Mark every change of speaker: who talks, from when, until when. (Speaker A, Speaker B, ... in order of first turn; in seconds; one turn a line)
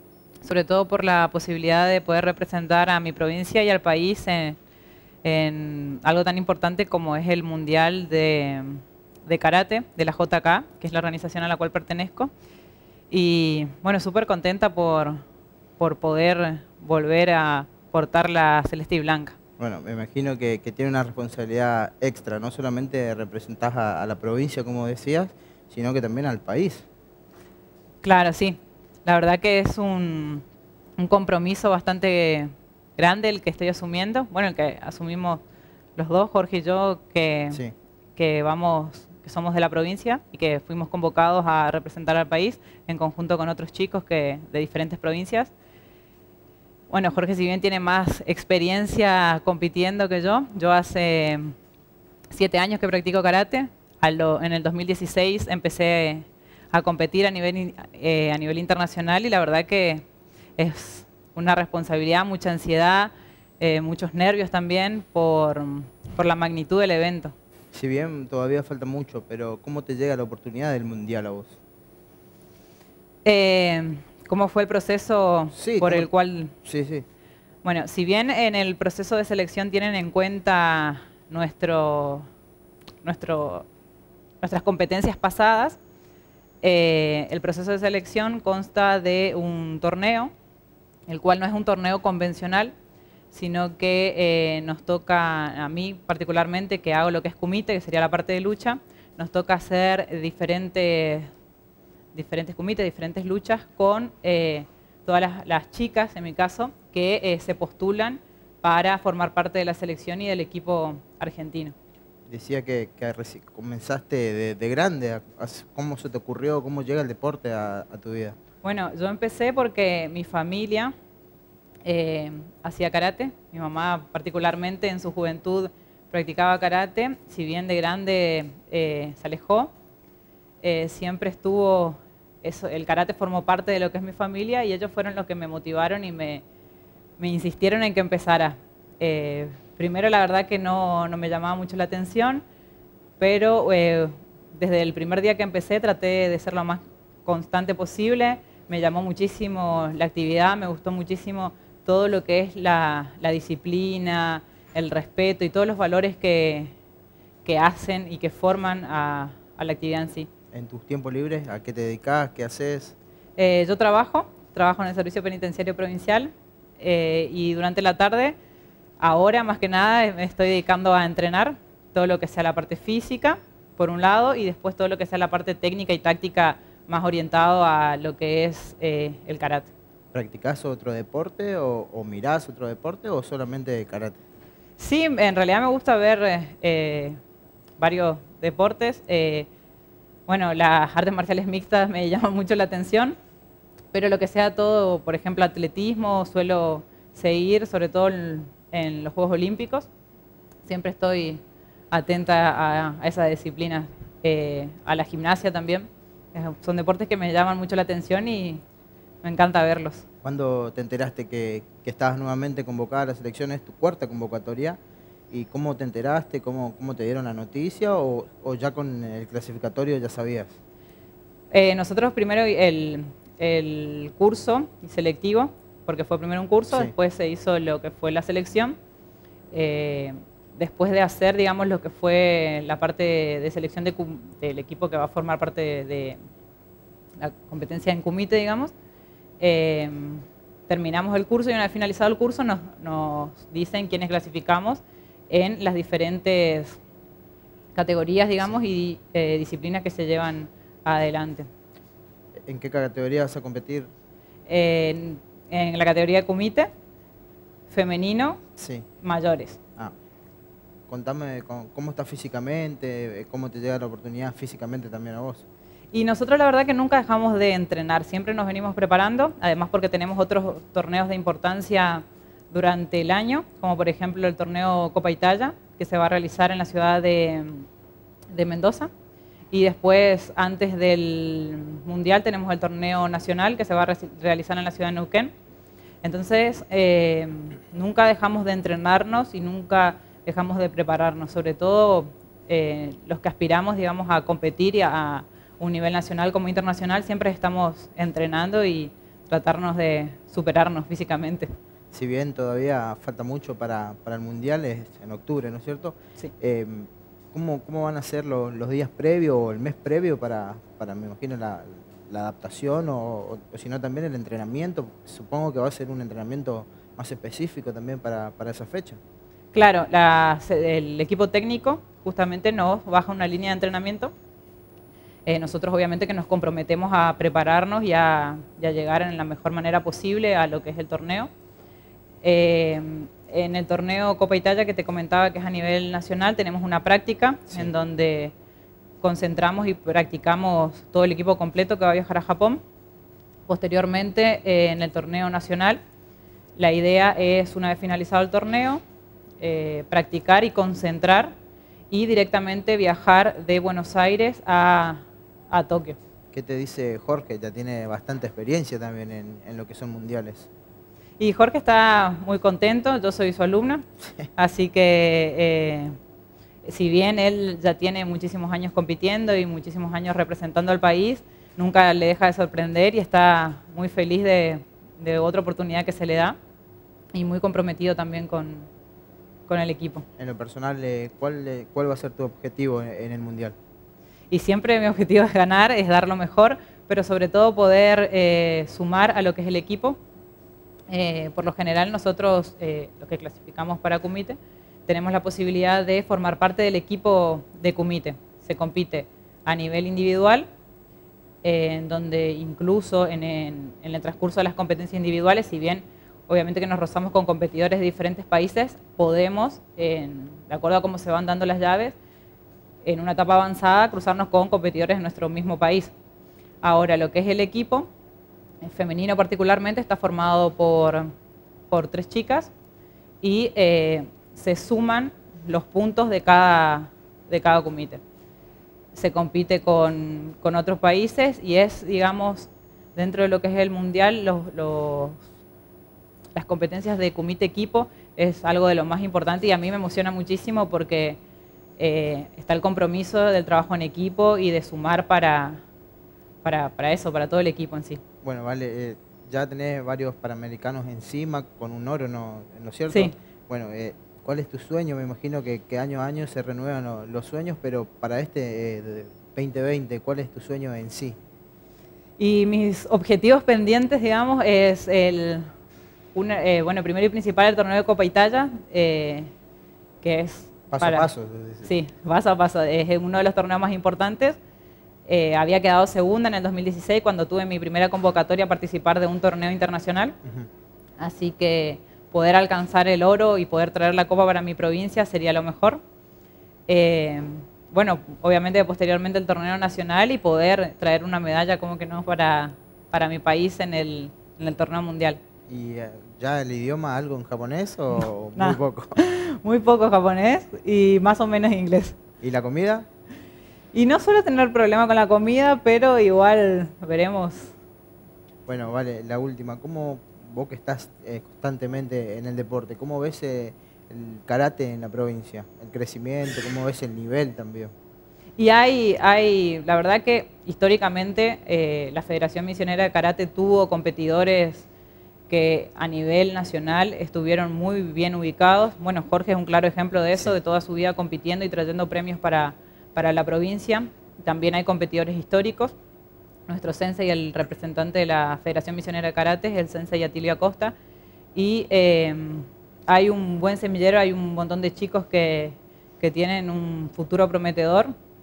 Speaker A: 0.4-4.6
Speaker A: 5.2-12.3
Speaker A: 13.1-15.2
Speaker A: 15.8-19.4
Speaker B: 19.6-26.9
Speaker A: 28.0-30.4
Speaker A: 31.0-35.4
Speaker A: 36.0-37.6
Speaker A: 38.1-45.5
Speaker A: 46.9-51.5
Speaker A: 52.3-60.0
Speaker A: 60.6-67.3
Speaker B: 67.7-71.6
Speaker A: 73.2-76.5
Speaker B: 75.5-76.1
Speaker B: 76.6-77.0
Speaker A: 77.6-82.3
Speaker A: 83.0-83.7
Speaker A: 84.4-85.8
Speaker A: 86.6-90.3
Speaker A: 91.1-92.7
Speaker A: 93.3-101.3
Speaker A: 102.1-111.7
Speaker B: 112.3-118.3
Speaker A: 118.6-120.9
Speaker A: 121.8-129.7
Speaker A: 130.6-136.4
Speaker A: 137.2-142.4
Speaker A: 143.2-156.7
Speaker A: 157.4-160.3
Speaker B: 160.5-162.9
Speaker A: 163.4-168.3
Speaker A: 169.0-179.7
Speaker B: 180.1-184.2
Speaker A: 184.8-187.2
Speaker A: 187.8-189.5
Speaker A: 190.3-193.2
Speaker A: 193.9-199.9
Speaker A: 200.6-208.6
Speaker A: 209.2-210.0
Speaker B: 210.2-214.8
Speaker B: 215.3-220.6
Speaker A: 221.5-228.8
Speaker A: 229.5-236.2
Speaker A: 237.2-238.7
Speaker A: 239.4-246.8
Speaker A: 247.7-251.5
Speaker B: 252.4-253.9
Speaker A: 254.5-256.7
Speaker A: 257.7-258.4
Speaker B: 258.6-258.9
Speaker A: 259.0-259.6
Speaker B: 260.9-265.4
Speaker A: 265.9-277.7
Speaker A: 278.3-278.9
Speaker A: 279.5-285.3
Speaker A: 286.0-301.5
Speaker B: 301.9-319.0
Speaker A: 319.5-324.1
Speaker A: 325.2-331.3
Speaker A: 332.2-338.3
Speaker A: 339.0-342.6
Speaker A: 343.5-345.8
Speaker A: 346.6-348.8
Speaker A: 349.4-351.3
Speaker A: 351.9-356.0
Speaker B: 356.3-360.5
Speaker A: 361.2-363.8
Speaker A: 364.4-365.9
Speaker A: 366.6-376.4
Speaker A: 377.1-378.7
Speaker A: 379.5-380.1
Speaker B: 380.2-383.6
Speaker A: 384.3-390.0
Speaker A: 390.9-400.4
Speaker A: 401.4-412.0
Speaker A: 412.8-415.9
Speaker A: 416.6-417.9
Speaker A: 418.6-421.1
Speaker A: 421.7-422.5
Speaker A: 423.2-428.0
Speaker A: 428.9-435.2
Speaker A: 436.3-441.2
Speaker A: 441.8-445.6
Speaker A: 446.4-448.0
Speaker B: 448.2-461.2
Speaker A: 462.2-465.4
Speaker A: 466.1-469.3
Speaker A: 470.0-471.1
Speaker B: 470.7-471.7
Speaker A: 471.6-474.4
Speaker A: 475.1-480.1
Speaker A: 481.0-485.8
Speaker A: 486.7-495.2
Speaker B: 495.5-498.9
Speaker A: 497.9-502.0
Speaker B: 502.2-502.9
Speaker A: 503.7-507.5
Speaker B: 508.5-517.7
Speaker A: 518.4-524.7
Speaker A: 525.3-535.7
Speaker A: 536.5-540.7
Speaker A: 541.3-547.9